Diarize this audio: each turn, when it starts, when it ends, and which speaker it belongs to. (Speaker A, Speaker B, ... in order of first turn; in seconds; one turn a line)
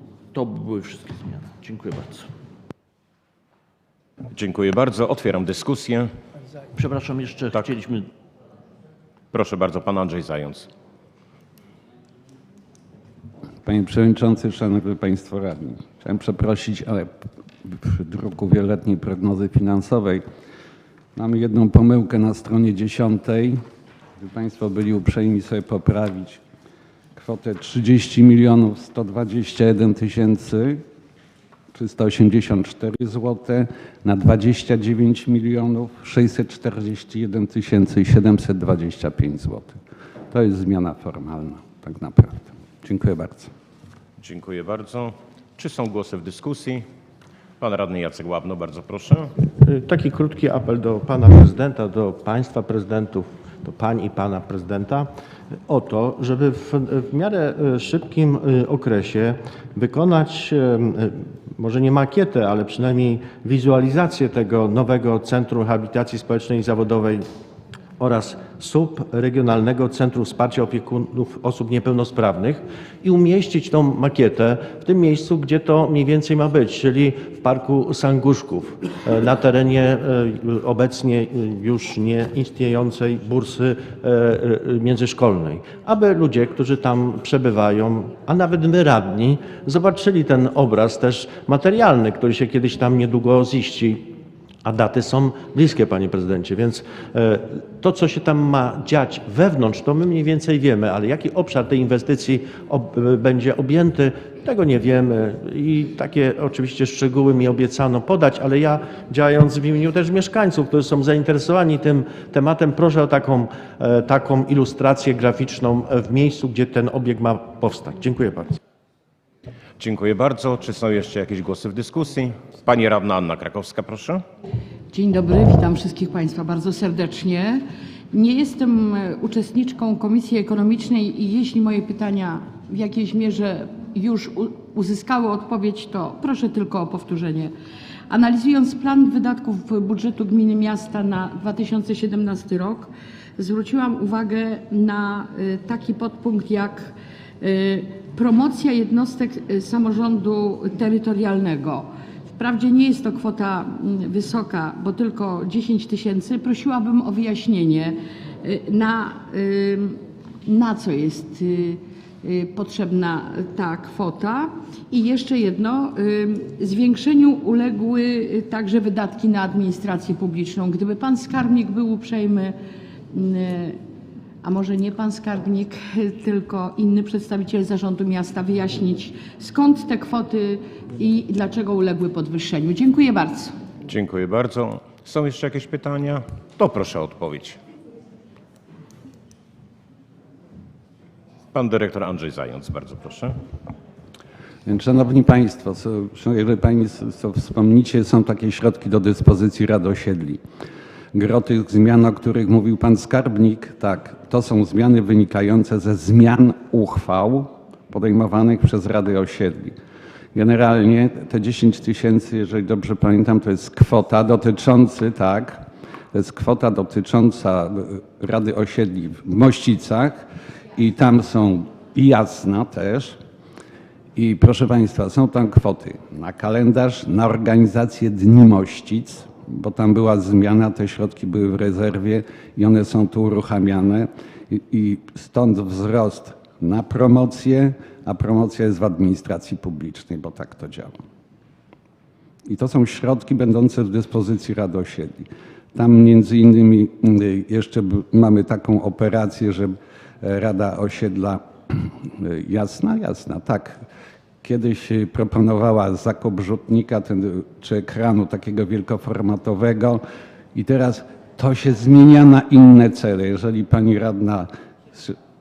Speaker A: 0.3-2.3
Speaker B: 4.3-6.1
Speaker A: 6.8-8.1
Speaker B: 9.3-10.7
Speaker C: 13.6-17.1
Speaker C: 17.6-20.2
Speaker C: 21.1-23.6
Speaker C: 24.2-26.4
Speaker C: 27.1-30.8
Speaker C: 31.7-39.8
Speaker C: 40.3-43.5
Speaker B: 44.2-46.8
Speaker B: 47.6-49.3
Speaker D: 49.6-55.1
Speaker D: 55.7-67.2
Speaker D: 68.0-94.1
Speaker D: 94.6-118.6
Speaker B: 119.8-124.2
Speaker E: 124.9-137.5
Speaker E: 138.1-172.6
Speaker E: 173.1-173.8
Speaker E: 174.4-183.6
Speaker B: 183.9-187.6
Speaker B: 191.5-193.3
Speaker C: 194.7-200.4
Speaker C: 201.1-209.8
Speaker C: 210.3-220.2
Speaker C: 220.8-223.2
Speaker C: 224.2-241.0
Speaker C: 242.5-253.8
Speaker C: 254.4-260.0
Speaker C: 260.5-265.2